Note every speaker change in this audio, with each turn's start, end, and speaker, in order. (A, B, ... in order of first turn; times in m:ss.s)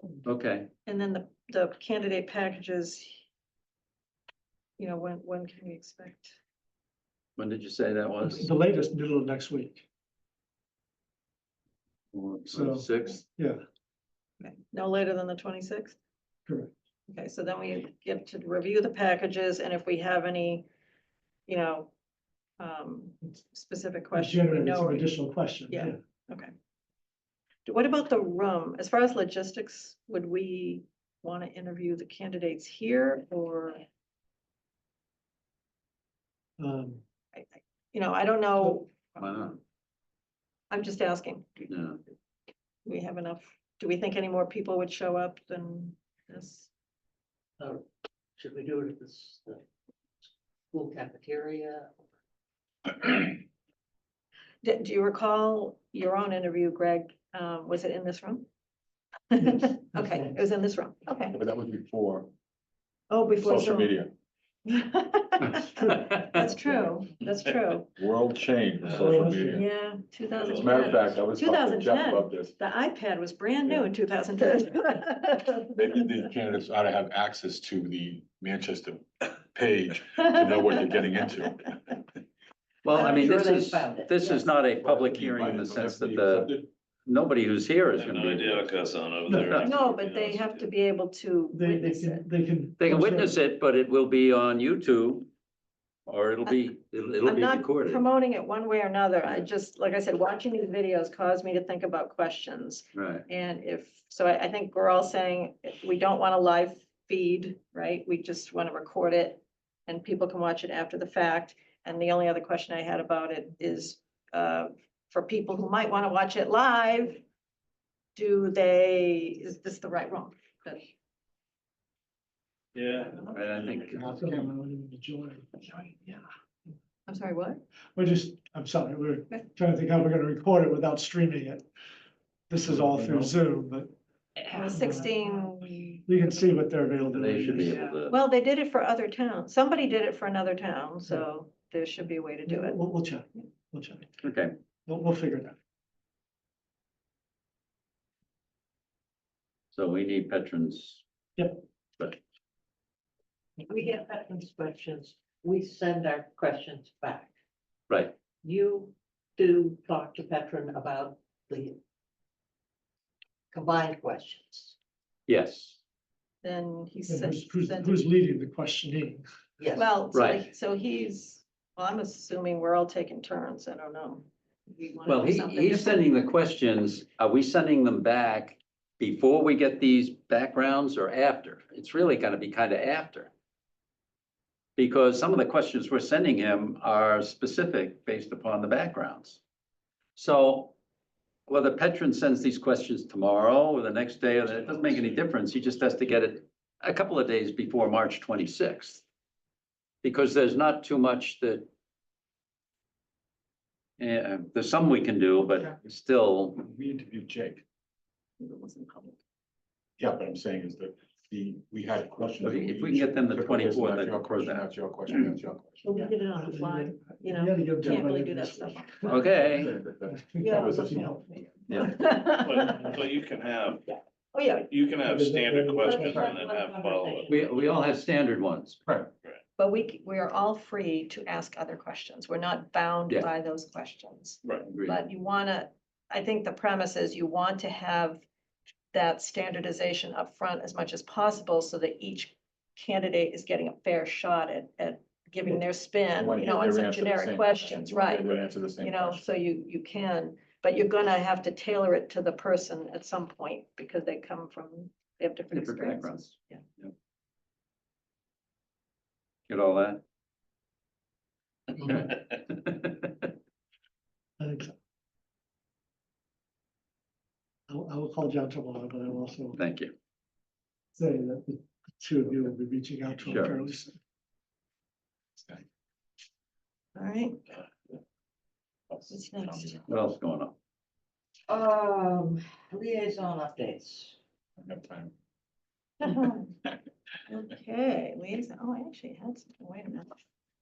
0:00.2-0:00.7 A
0:00.8-0:03.2 B
0:04.8-0:06.4 B
0:07.4-0:08.5 A
0:08.2-0:09.8 C
0:12.1-0:13.2 A
0:12.5-0:13.6 C
0:14.4-0:16.0 B
0:16.5-0:16.7 C
0:17.1-0:20.7 B
0:21.5-0:21.9 B
0:22.6-0:25.1 B
0:24.1-0:26.0 C
0:25.7-0:26.5 B
0:27.6-0:33.8 B
0:36.6-0:37.0 C
0:37.3-0:39.0 B
0:39.2-0:39.6 A
0:40.7-0:41.7 B
0:41.7-0:42.0 A
0:42.8-0:46.7 B
0:47.6-0:47.8 D
0:48.4-0:49.6 D
0:50.7-0:52.0 D
0:54.6-0:58.4 B
0:59.3-1:01.4 B
0:59.5-1:00.2 C
1:01.3-1:02.3 E
1:03.1-1:03.9 B
1:03.4-1:04.1 E
1:04.6-1:07.9 B
1:05.5-1:06.4 A
1:06.4-1:07.0 E
1:08.0-1:09.6 E
1:09.0-1:09.6 C
1:09.3-1:15.8 B
1:10.3-1:11.0 F
1:10.5-1:12.5 E
1:15.7-1:22.0 E
1:20.2-1:20.8 B
1:22.8-1:28.8 A
1:22.9-1:24.5 D
1:24.8-1:26.7 E
1:27.9-1:30.7 F
1:29.3-1:29.6 C
1:29.4-1:29.7 A
1:29.6-1:32.2 B
1:31.5-1:33.4 C
1:32.8-1:35.3 A
1:36.1-1:38.0 A
1:37.2-1:57.2 B
1:42.9-1:43.2 A
1:58.1-2:00.9 B
2:02.7-2:03.9 F
2:03.2-2:04.5 A
2:03.9-2:06.2 C
2:07.1-2:07.6 B
2:07.9-2:11.6 C
2:12.5-2:15.1 C
2:12.7-2:13.3 E
2:14.5-2:16.0 B
2:16.0-2:17.8 C
2:17.1-2:18.2 A
2:18.1-2:22.8 B
2:22.4-2:24.2 C
2:24.2-2:24.5 A
2:24.8-2:25.6 C
2:29.7-2:31.0 A
2:31.4-2:31.6 C
2:33.6-2:37.3 D
2:37.9-2:38.1 A
2:38.4-2:41.8 D
2:43.5-2:44.7 D
2:45.3-2:45.8 A
2:46.4-2:48.0 B
2:47.1-2:49.3 C
2:49.6-2:49.9 D
2:49.7-2:56.0 B
2:50.1-2:50.5 A
2:55.0-3:03.3 A
3:04.8-3:09.4 A
3:10.2-3:10.7 A
3:11.5-3:19.0 A
3:20.0-3:21.7 A
3:24.0-3:26.6 A
3:26.6-3:27.6 E
3:28.4-3:29.2 B
3:30.0-3:35.8 E
3:32.4-3:34.7 A
3:35.8-3:39.3 B
3:35.9-3:39.3 C
3:39.1-3:39.7 A
3:39.4-3:41.2 E
3:40.2-3:41.2 C
3:40.4-3:43.0 B
3:41.7-3:41.9 A
3:42.4-3:43.8 F
3:43.9-3:44.6 B
3:44.6-3:47.4 F
3:45.1-3:46.3 C
3:45.8-3:47.4 D
3:47.3-3:48.8 A
3:49.6-3:58.2 B
3:54.7-3:55.0 A
3:58.9-4:16.6 B
4:06.2-4:09.2 E
4:15.5-4:16.9 A
4:19.5-4:20.0 A
4:21.7-4:23.3 A
4:24.4-4:24.7 C
4:27.7-4:29.6 C
4:29.6-4:29.9 A
4:30.9-4:34.0 C
4:33.2-4:33.6 A
4:35.4-4:35.6 E
4:37.0-4:37.4 B
4:38.9-4:39.8 E
4:39.1-4:39.8 B
4:39.9-4:40.5 A
4:41.5-4:44.2 D
4:44.6-4:45.1 E
4:46.0-4:46.4 B
4:47.3-4:50.2 B